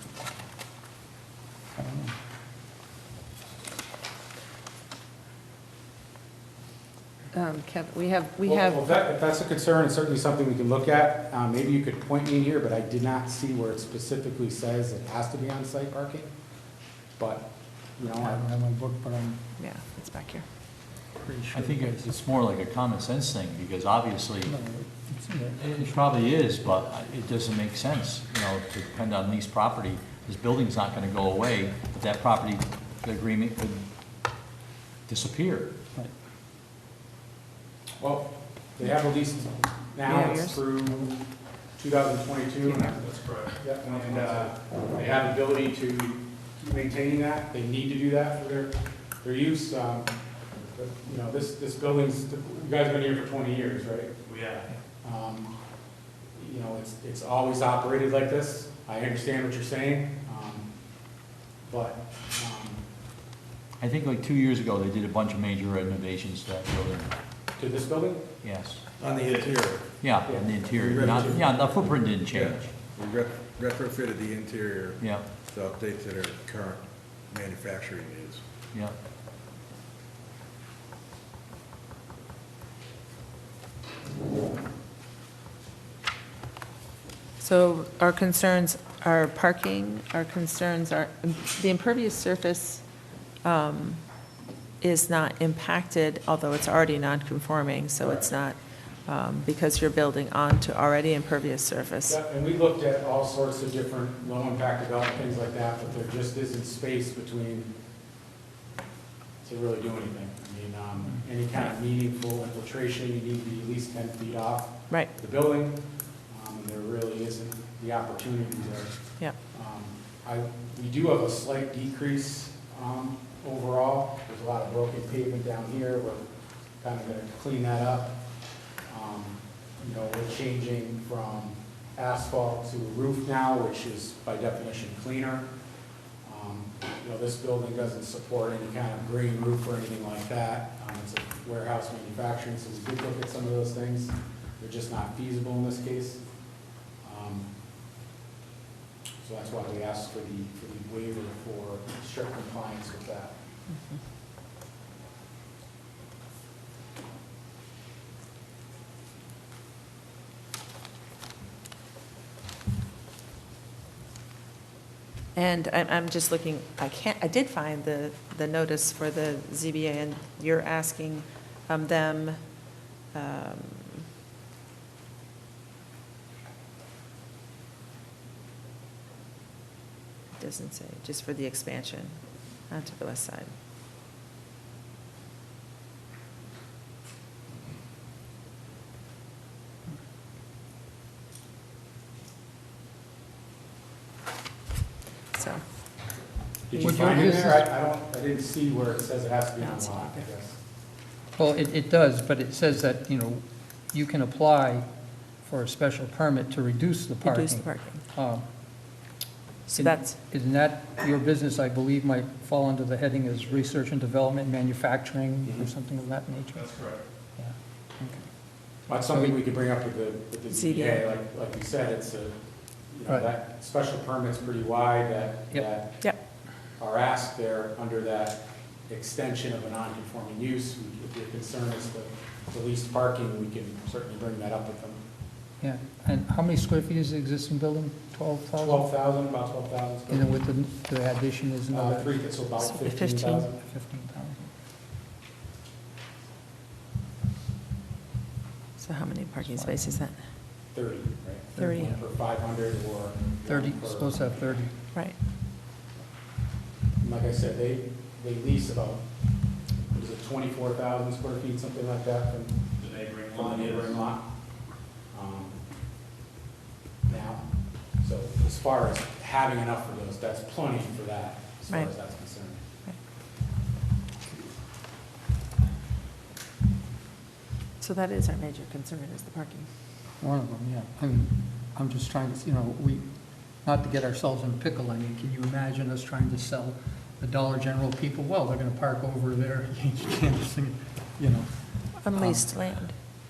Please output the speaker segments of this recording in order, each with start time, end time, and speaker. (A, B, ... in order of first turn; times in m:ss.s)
0:01.8-0:02.1 A
0:07.3-0:09.0 B
0:08.4-0:16.3 C
0:17.2-0:18.4 C
0:18.1-0:19.4 A
0:19.6-0:20.4 B
0:21.2-0:22.1 A
0:21.5-0:24.5 D
0:24.4-0:25.6 A
0:25.6-0:33.8 D
0:35.1-0:35.7 D
0:38.0-0:41.1 C
0:40.0-0:40.6 B
0:41.8-0:50.1 C
0:42.8-0:44.5 E
0:50.7-0:54.1 C
0:54.3-0:54.6 E
0:55.0-0:55.5 C
0:56.4-1:00.7 C
1:01.6-1:02.8 C
1:03.8-1:07.1 D
1:07.6-1:08.3 C
1:08.4-1:08.8 D
1:09.0-1:09.8 F
1:09.0-1:09.4 C
1:10.0-1:12.7 D
1:10.2-1:11.6 C
1:10.8-1:18.4 F
1:15.0-1:15.3 D
1:27.4-1:32.8 B
1:33.4-1:34.0 B
1:34.8-1:42.2 B
1:38.0-1:38.3 C
1:42.0-1:47.7 C
1:49.4-2:06.2 C
2:06.8-2:08.2 C
2:08.9-2:15.5 C
2:16.2-2:26.2 C
2:27.0-2:27.5 C
2:29.2-2:33.3 C
2:45.3-2:52.4 B
2:53.1-2:54.0 B
3:00.4-3:02.2 B
3:02.7-3:03.5 B
3:15.3-3:15.6 B
3:16.7-3:20.6 C
3:16.8-3:17.7 A
3:19.6-3:20.2 B
3:21.4-3:24.8 A
3:25.4-3:28.4 A
3:27.2-3:28.0 B
3:29.7-3:30.2 B
3:29.8-3:38.1 A
3:35.4-3:35.7 C
3:36.6-3:37.0 E
3:38.9-3:42.3 C
3:38.9-3:39.4 A
3:40.5-3:41.0 B
3:42.9-3:46.0 C
3:46.8-3:55.0 C
3:55.6-3:58.9 A
3:58.5-4:00.4 C
4:00.1-4:02.1 A
4:01.7-4:03.6 C
4:02.6-4:03.4 B
4:03.6-4:04.4 A
4:08.8-4:10.2 B
4:09.4-4:10.0 A
4:10.7-4:14.7 C
4:11.6-4:12.0 A
4:11.6-4:11.9 B
4:13.5-4:14.7 A
4:17.0-4:19.0 C
4:19.9-4:24.2 C
4:22.8-4:24.0 E
4:25.1-4:25.6 C
4:27.0-4:32.6 C
4:31.7-4:31.9 B
4:37.8-4:39.7 B
4:40.2-4:43.0 A
4:43.6-4:52.5 A
4:52.0-4:52.9 B